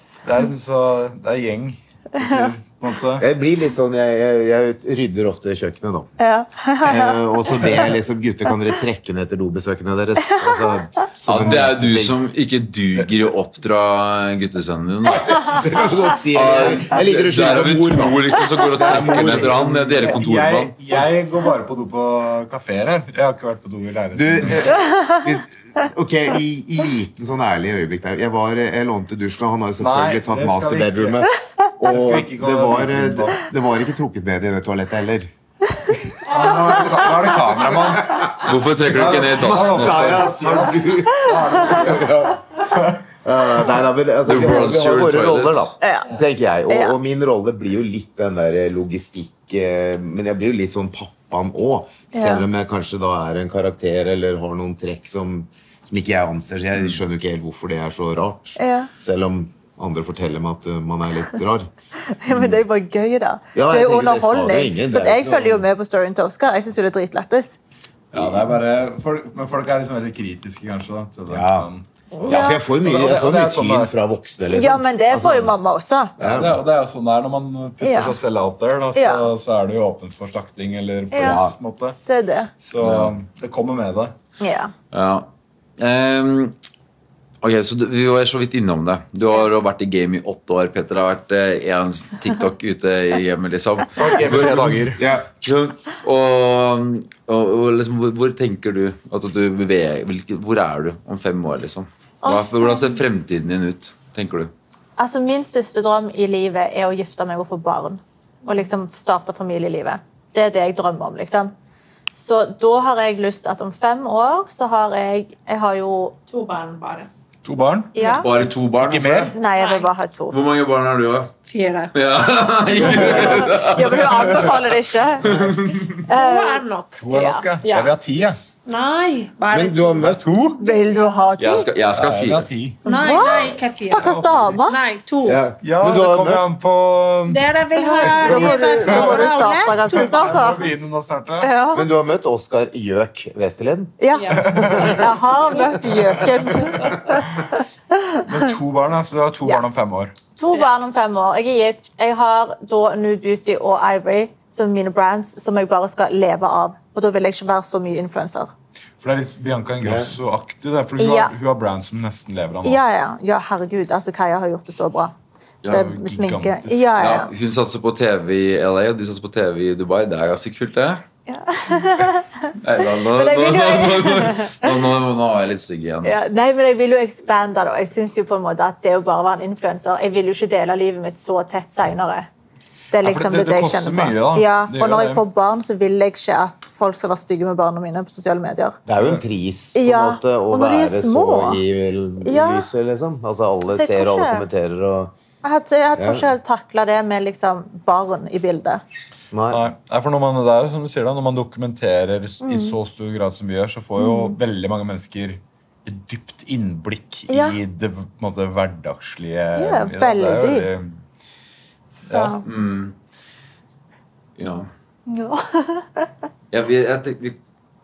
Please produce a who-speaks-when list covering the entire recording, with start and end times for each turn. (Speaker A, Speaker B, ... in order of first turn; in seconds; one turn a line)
Speaker A: 0.2-3.2
Speaker B: 3.2-6.1
Speaker C: 6.2-7.8
Speaker B: 6.8-12.2
Speaker C: 10.3-10.6
Speaker D: 11.2-20.7
Speaker B: 15.5-20.2
Speaker A: 18.8-24.7
Speaker B: 24.1-35.3
Speaker A: 29.8-31.3
Speaker A: 31.9-33.4
Speaker A: 36.3-38.3
Speaker E: 36.3-37.0
Speaker B: 37.7-38.5
Speaker D: 38.4-40.3
Speaker A: 38.9-43.0
Speaker B: 39.3-42.6
Speaker B: 43.2-61.7
Speaker D: 44.2-45.8
Speaker C: 45.8-46.2
Speaker C: 46.7-46.9
Speaker C: 52.1-52.5
Speaker C: 58.6-58.9
Speaker C: 62.1-67.6
Speaker B: 62.3-62.6
Speaker B: 63.5-65.7
Speaker A: 68.1-73.9
Speaker B: 68.1-68.6
Speaker B: 71.3-71.7
Speaker C: 72.1-72.6
Speaker B: 72.2-75.5
Speaker C: 74.5-76.1
Speaker B: 76.2-76.6
Speaker A: 76.2-82.0
Speaker C: 77.8-78.2
Speaker C: 78.9-79.3
Speaker C: 81.1-81.4
Speaker B: 81.2-81.5
Speaker C: 82.0-82.5
Speaker A: 82.6-84.1
Speaker D: 82.8-83.1
Speaker C: 84.4-84.7
Speaker D: 84.9-86.5
Speaker D: 87.4-104.5
Speaker A: 94.0-95.0
Speaker B: 95.0-95.3
Speaker C: 102.2-102.8
Speaker C: 105.0-111.5
Speaker C: 112.1-116.2
Speaker E: 116.3-117.1
Speaker A: 117.4-118.0
Speaker C: 117.9-118.3
Speaker D: 118.0-119.3
Speaker A: 118.8-119.3
Speaker C: 119.3-120.4
Speaker E: 119.4-119.9
Speaker D: 120.3-121.3
Speaker E: 121.5-121.9
Speaker D: 121.9-124.6
Speaker C: 122.8-125.3
Speaker B: 122.9-123.6
Speaker D: 125.2-126.0
Speaker E: 126.0-127.1
Speaker C: 126.1-127.4
Speaker A: 127.0-128.4
Speaker E: 127.6-127.9
Speaker E: 128.7-131.1
Speaker B: 129.5-130.3
Speaker A: 130.2-130.6
Speaker C: 130.6-131.7
Speaker D: 131.4-132.5
Speaker A: 131.9-133.4
Speaker E: 132.8-135.5
Speaker C: 132.8-134.8
Speaker A: 133.9-134.6
Speaker B: 135.2-136.4
Speaker A: 135.6-137.5
Speaker E: 137.3-140.3
Speaker C: 137.8-140.6
Speaker A: 138.1-141.5
Speaker C: 141.4-141.8
Speaker B: 141.7-144.6
Speaker C: 144.0-147.3
Speaker E: 144.1-145.8
Speaker A: 144.3-145.1
Speaker A: 145.8-147.0
Speaker E: 146.6-147.1
Speaker A: 148.2-150.1
Speaker C: 150.4-158.5
Speaker A: 159.0-162.8
Speaker B: 159.8-160.1
Speaker C: 161.0-161.3
Speaker C: 162.6-165.1
Speaker D: 165.6-165.9
Speaker A: 165.7-166.9
Speaker C: 165.7-167.3
Speaker D: 166.9-171.0
Speaker C: 171.3-172.5
Speaker D: 172.6-176.2
Speaker C: 173.1-174.7
Speaker C: 176.0-182.3
Speaker C: 182.9-188.8
Speaker A: 183.0-185.2
Speaker B: 188.9-195.1
Speaker A: 189.0-189.2
Speaker C: 189.7-191.6
Speaker C: 192.2-192.7
Speaker C: 193.7-194.4
Speaker C: 195.4-198.8
Speaker B: 195.9-196.3
Speaker B: 199.3-199.7
Speaker A: 199.5-211.0
Speaker C: 202.4-202.7
Speaker C: 204.0-204.3
Speaker C: 207.3-207.6
Speaker C: 209.5-210.7
Speaker A: 212.0-212.4
Speaker C: 212.0-212.4
Speaker D: 212.4-212.9
Speaker D: 214.4-214.7
Speaker C: 215.1-216.1
Speaker D: 216.5-217.4